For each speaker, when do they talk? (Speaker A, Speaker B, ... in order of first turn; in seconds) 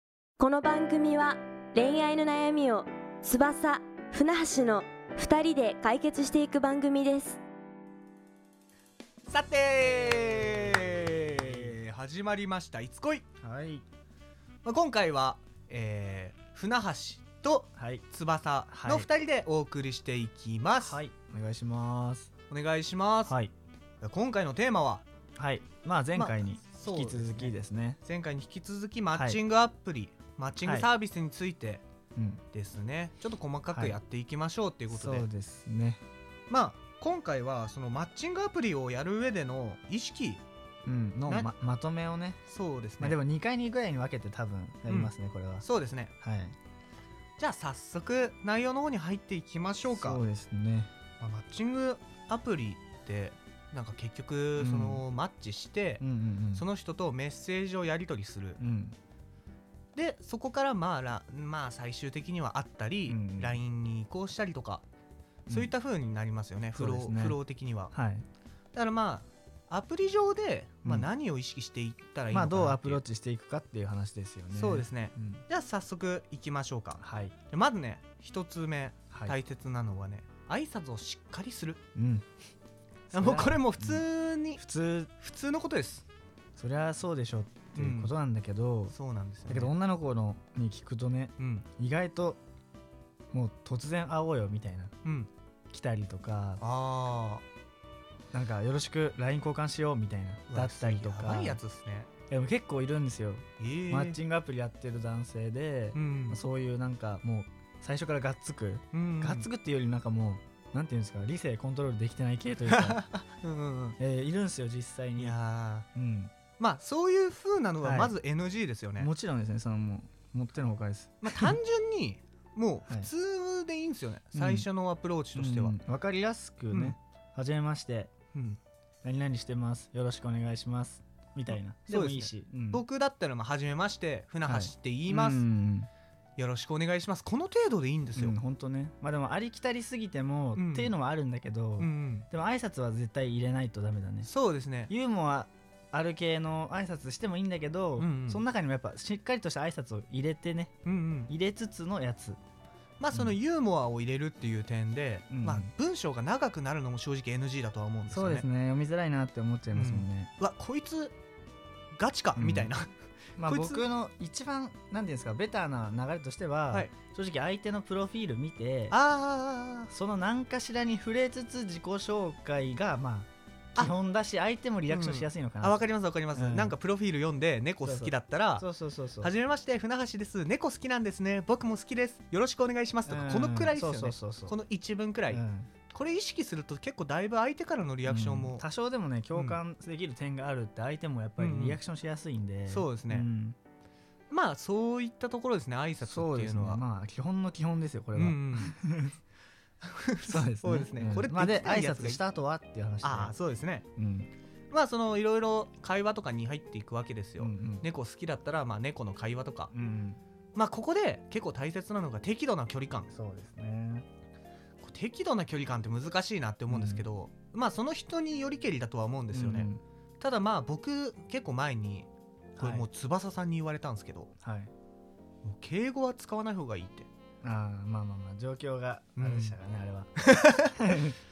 Speaker A: 0.4-7.4
Speaker B: 9.3-13.2, 14.6-21.0, 22.5-23.4, 24.0-25.1, 26.1-31.8, 32.5-35.3, 36.5-40.4, 42.5-43.2, 44.9-46.1, 47.4-50.2, 51.2-58.6, 60.0-64.8, 65.5-67.9, 68.7-73.0, 74.5-81.8, 83.1-84.6, 85.2-86.1, 87.8-88.1, 88.9-89.8, 91.4-91.7, 95.0-95.3, 96.6-97.4, 100.5-102.1, 103.6-104.2, 105.9-106.4, 108.9-109.5, 112.7-114.0, 115.2-115.9, 116.6-119.1, 121.2-125.8, 126.7-127.0, 128.3-128.6, 131.8-135.5, 136.4-138.4, 140.6-140.9, 141.8-142.3, 144.2-144.9, 148.0-148.4, 150.8-151.3, 153.0-158.5, 159.7-161.2, 161.9-163.9, 168.9-169.9, 174.9-188.7, 189.3-189.6, 191.4-191.8, 192.7-193.3, 194.3-196.8, 198.2-198.7, 199.8-202.2, 203.0-203.9, 204.7-209.7, 210.6-213.1, 214.8-224.3, 225.4-227.1, 229.2-229.6, 230.2-231.1
Speaker C: 13.4-13.8, 17.8-18.1, 18.7-19.1, 20.8-22.3, 23.3-23.5, 25.4-28.0, 29.1-29.4, 30.6-30.9, 32.2-32.4, 33.7-34.0, 34.9-36.0, 40.9-42.4, 43.0-45.7, 46.2-46.6, 49.9-50.9, 54.6-55.0, 56.0-56.7, 58.6-59.0, 63.1-63.6, 66.8-67.4, 67.9-68.2, 72.3-75.4, 77.0-77.3, 79.1-79.4, 82.0-82.3, 83.1-85.1, 86.6-89.0, 89.5-92.4, 93.3-94.9, 95.7-96.6, 98.3-101.6, 102.3-113.0, 114.0-115.4, 115.9-116.3, 117.8-118.2, 119.0-121.6, 124.3-124.7, 125.3-128.1, 129.0-132.8, 134.4-135.9, 138.2-144.3, 144.9-150.8, 151.3-152.4, 153.1-153.4, 155.3-155.7, 158.1-160.3, 162.4-162.7, 163.4-169.0, 169.9-175.8, 176.3-176.8, 177.8-179.3, 183.1-184.6, 185.3-185.7, 188.1-193.6, 196.0-199.2, 200.2-203.3, 203.9-204.3, 207.4-207.9, 209.7-210.2, 213.1-214.1, 216.7-217.1, 219.3-219.8, 222.6-222.9, 224.4-224.7, 227.4-231.2